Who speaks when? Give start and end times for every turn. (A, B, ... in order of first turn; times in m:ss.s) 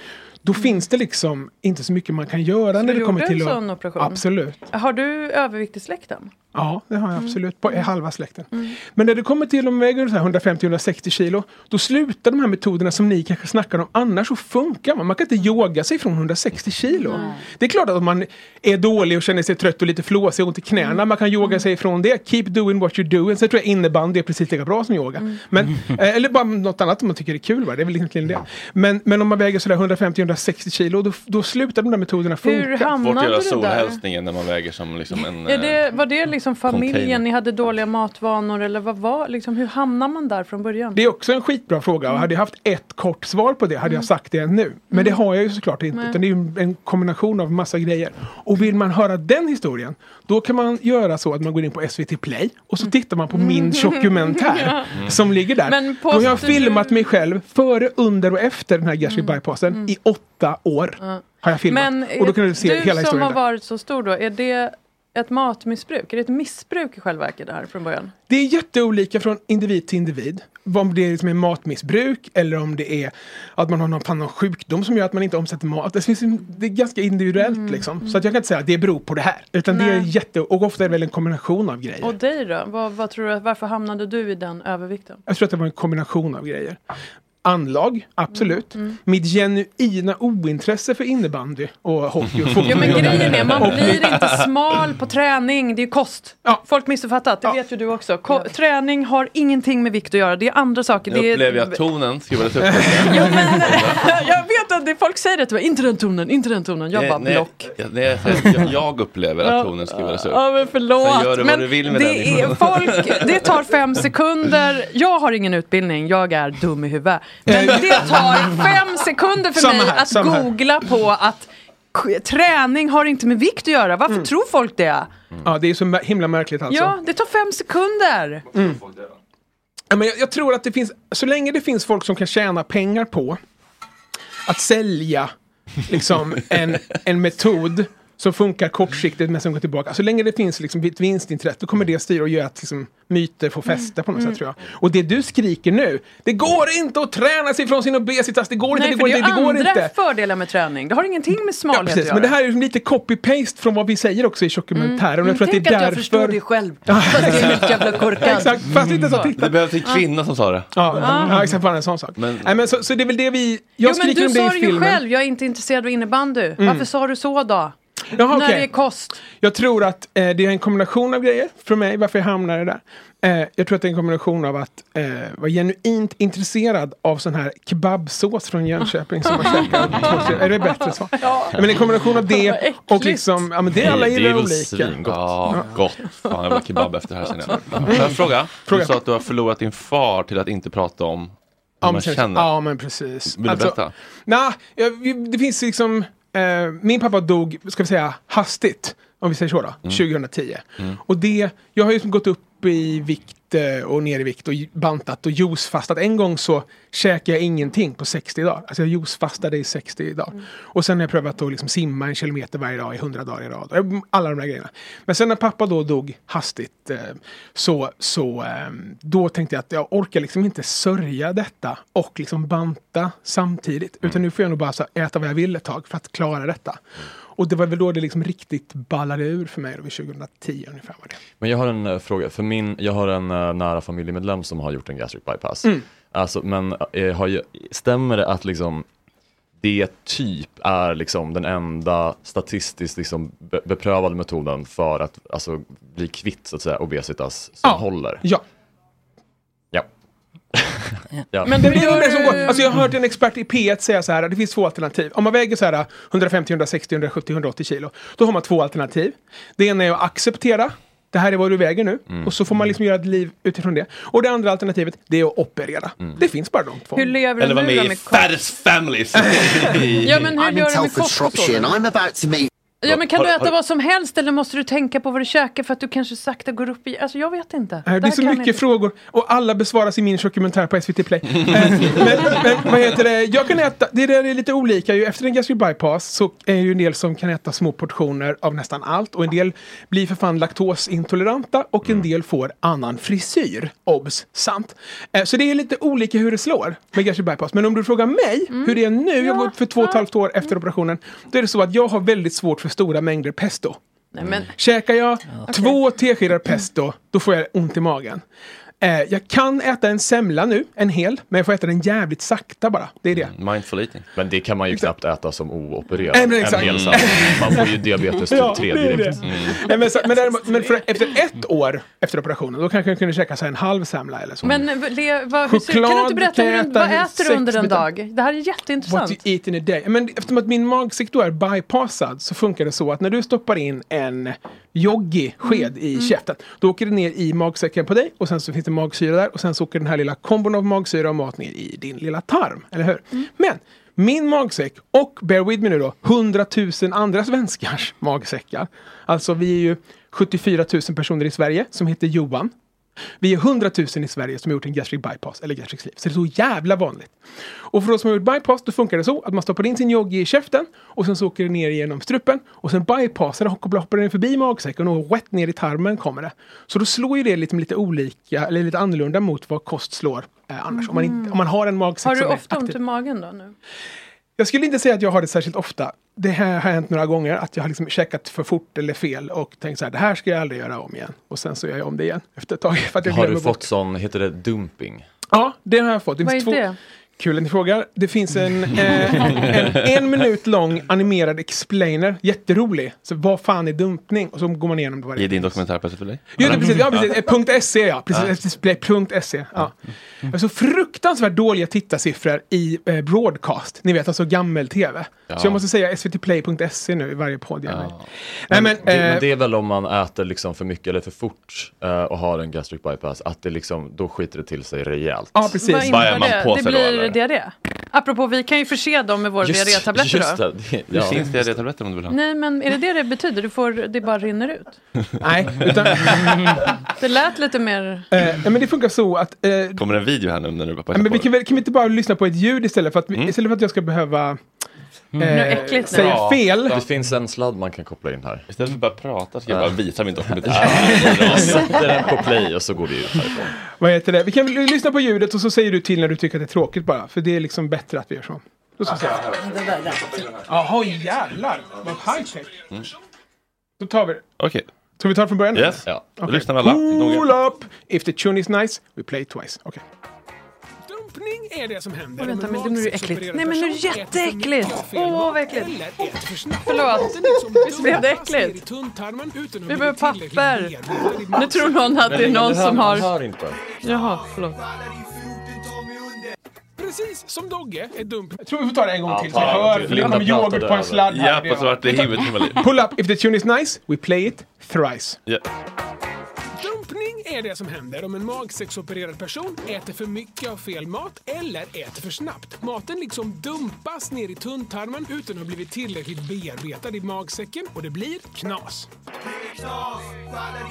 0:00.4-0:04.6 A
0:02.7-0:06.3 B
0:06.5-0:32.9 A
0:07.2-0:07.9 B
0:16.9-0:17.4 B
0:20.8-0:21.6 B
0:32.4-0:34.0 B
0:32.9-0:35.9 C
0:35.4-0:41.0 B
0:36.7-0:37.2 C
0:40.9-1:03.4 A
0:44.9-0:45.2 B
0:45.9-0:46.2 B
0:52.8-0:55.0 B
0:54.9-0:55.2 C
0:55.6-0:57.0 B
0:59.0-0:59.9 B
1:01.0-1:08.1 B
1:08.3-1:22.2 A
1:17.4-1:18.1 B
1:19.7-1:20.1 B
1:22.0-1:25.2 B
1:25.3-1:26.8 A
1:27.4-1:34.3 A
1:28.3-1:29.0 B
1:32.6-1:41.8 B
1:32.9-1:34.5 C
1:41.1-1:44.2 C
1:42.6-1:43.6 A
1:42.9-1:47.7 B
1:46.9-1:50.4 C
1:49.4-2:05.1 B
1:51.0-1:53.6 C
1:57.4-1:58.6 A
1:59.5-2:00.5 A
2:05.4-2:07.0 A
2:06.7-2:08.4 B
2:08.5-2:08.8 A
2:09.9-2:13.4 A
2:14.4-2:15.3 A
2:15.9-2:29.9 A
2:23.7-2:24.4 B
2:28.7-2:32.3 B
2:31.7-2:39.6 A
2:34.7-2:40.0 B
2:37.3-2:37.7 C
2:39.3-2:41.1 C
2:40.7-2:45.0 A
2:40.9-2:41.4 B
2:42.2-2:42.6 C
2:43.8-2:47.7 B
2:46.6-2:46.9 A
2:48.1-2:48.7 A
2:48.3-2:49.2 B
2:49.2-3:05.7 A
2:59.3-3:03.5 B
3:03.7-3:05.4 D
3:05.0-3:12.5 C
3:07.8-3:09.0 A
3:11.8-3:46.8 A
3:13.3-3:13.9 C
3:47.4-3:51.2 A
3:51.4-3:58.8 D
3:59.6-4:08.2 D
4:07.6-4:08.4 A
4:10.5-4:11.9 D
4:11.4-4:12.8 B
4:11.5-4:27.1 A
4:26.9-4:28.4 B
4:27.4-4:30.3 C
4:29.1-4:29.8 A
4:30.0-4:31.8 B
4:30.4-4:32.5 E
4:32.8-4:38.6 B
4:32.8-4:33.5 C
4:37.8-5:03.8 A
4:58.5-5:00.1 B
5:04.1-5:04.5 B
5:04.5-5:08.2 A
5:05.5-5:05.8 B
5:08.8-5:13.3 A
5:13.1-5:14.1 C
5:14.1-5:19.2 D
5:16.1-5:24.7 A
5:16.5-5:17.3 C
5:19.2-5:19.6 C
5:24.4-5:29.2 B
5:25.4-5:27.9 A
5:28.8-5:52.5 A
5:35.4-5:36.1 B
5:53.2-5:57.2 A
5:57.7-6:12.8 A
6:10.7-6:11.4 B
6:12.0-6:13.5 B
6:14.4-6:23.6 A
6:23.0-6:25.0 D
6:25.3-6:26.6 A
6:26.2-6:26.8 B
6:27.2-6:35.6 A
6:35.2-6:37.3 C
6:36.3-6:39.7 A
6:40.3-6:47.9 A
6:45.3-6:45.6 C
6:47.7-6:48.0 C
6:48.5-6:49.2 A
6:48.5-6:55.5 D
6:55.3-6:56.3 A
6:55.5-7:00.4 B
6:55.8-6:57.2 C
6:59.4-7:01.6 D
7:00.9-7:02.2 C
7:02.1-7:04.8 B
7:05.2-7:06.6 A
7:07.0-7:08.0 B
7:08.1-7:09.8 A
7:09.8-7:11.3 C
7:10.9-7:14.4 A
7:15.2-7:16.8 A
7:15.2-7:16.2 B
7:15.9-7:16.8 C
7:16.7-7:18.4 D
7:18.5-7:21.8 C
7:20.4-7:23.5 D
7:20.9-7:21.6 A
7:23.8-7:29.3 A
7:30.4-7:32.6 A
7:33.8-7:34.2 A
7:34.4-7:34.6 C
7:35.0-7:39.8 A
7:35.5-7:37.3 C
7:35.9-7:36.1 D
7:40.8-7:52.2 A
7:42.2-7:45.9 B
7:46.6-7:48.6 B
7:49.7-7:50.7 B
7:51.3-7:53.1 B
7:52.1-7:53.8 D
7:53.8-7:54.6 B
7:56.8-8:05.2 A
7:59.1-8:01.0 D
7:59.4-7:59.8 C
8:01.1-8:02.6 C
8:06.6-8:18.9 A